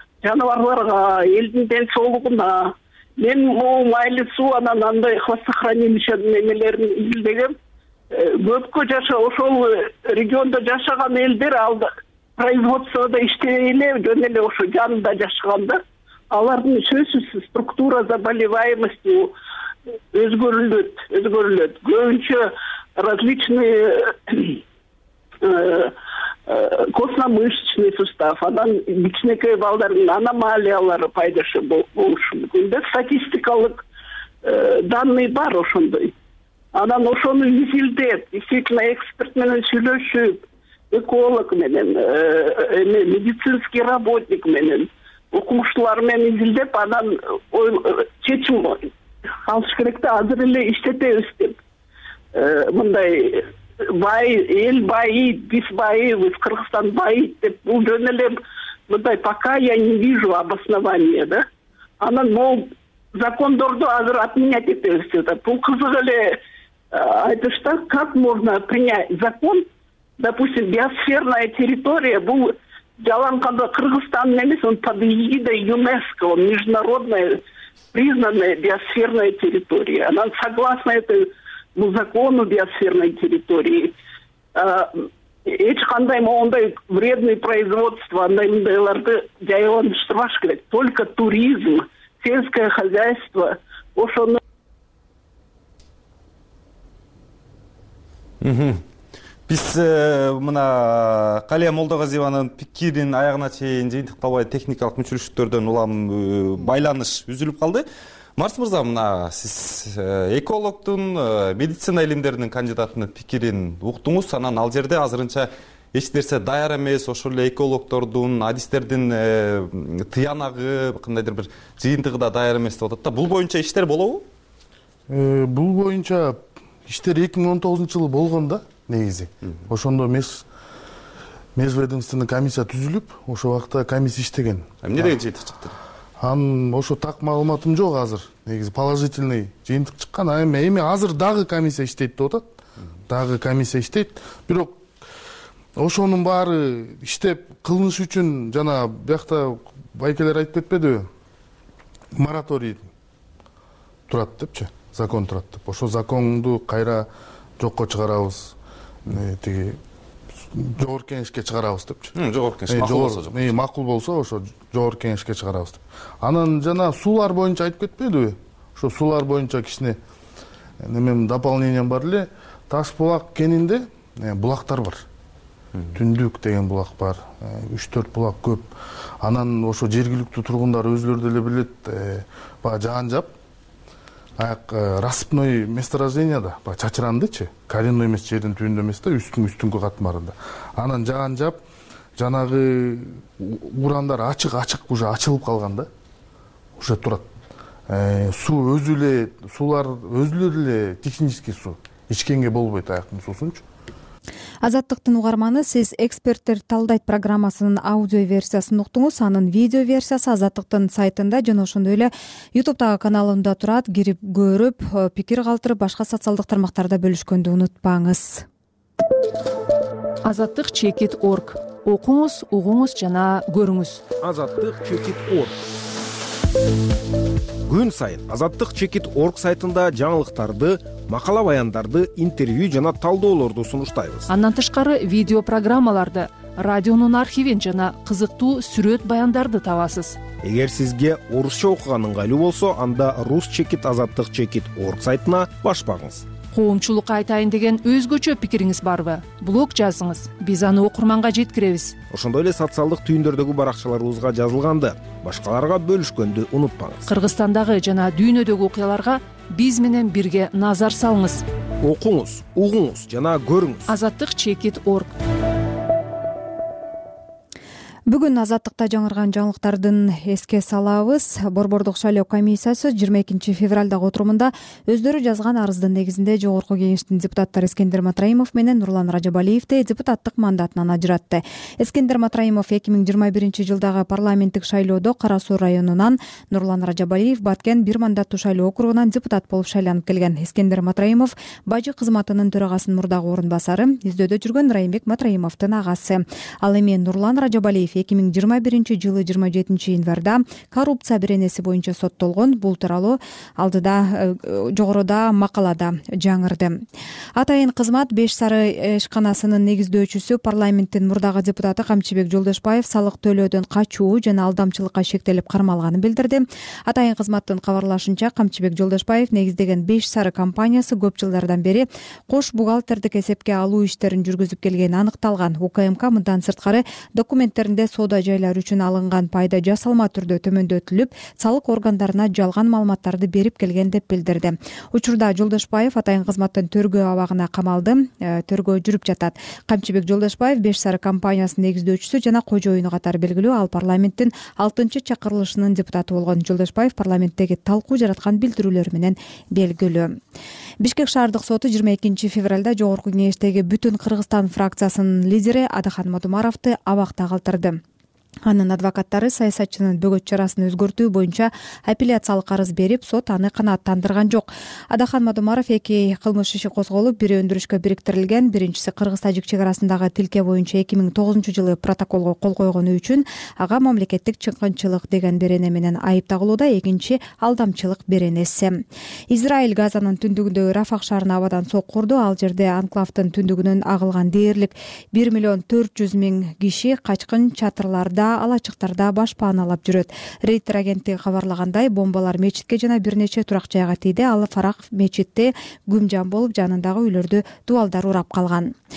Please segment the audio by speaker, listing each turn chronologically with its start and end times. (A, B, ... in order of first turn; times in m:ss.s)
0:00.2-0:07.6 A
0:08.1-0:19.4 A
0:20.1-0:24.6 A
0:25.4-0:25.9 A
0:26.5-0:33.8 A
0:34.4-0:36.1 A
0:36.7-0:48.9 A
0:49.5-0:51.6 A
0:52.3-1:01.5 A
1:02.0-1:06.4 A
1:06.9-1:09.7 A
1:10.2-1:24.0 A
1:24.6-1:34.4 A
1:38.4-1:38.8 B
1:39.5-1:47.9 B
1:48.4-2:04.2 B
2:05.1-2:10.4 C
2:11.6-2:15.1 C
2:14.8-2:15.8 B
2:16.2-2:22.4 C
2:23.1-2:24.8 C
2:25.8-2:31.1 C
2:32.1-2:32.9 C
2:34.1-2:37.1 C
2:37.6-2:38.6 C
2:39.1-2:39.8 C
2:40.5-2:42.1 C
2:42.2-2:43.4 B
2:42.7-2:50.0 C
2:50.8-2:55.0 C
2:55.9-3:03.3 C
3:04.4-3:11.6 C
3:12.2-3:15.9 C
3:16.8-3:17.3 C
3:17.9-3:23.6 C
3:24.6-3:38.5 D
3:40.2-3:44.1 E
3:44.2-3:45.6 F
3:47.6-3:54.3 F
3:54.3-4:00.2 E
4:00.4-4:06.2 F
4:06.5-4:12.0 E
4:12.1-4:17.1 F
4:17.1-4:21.4 E
4:21.8-4:23.9 F
4:23.9-4:25.2 E
4:28.1-5:06.8 D
5:07.4-5:50.1 D
5:50.8-5:57.8 D
5:58.5-6:38.7 D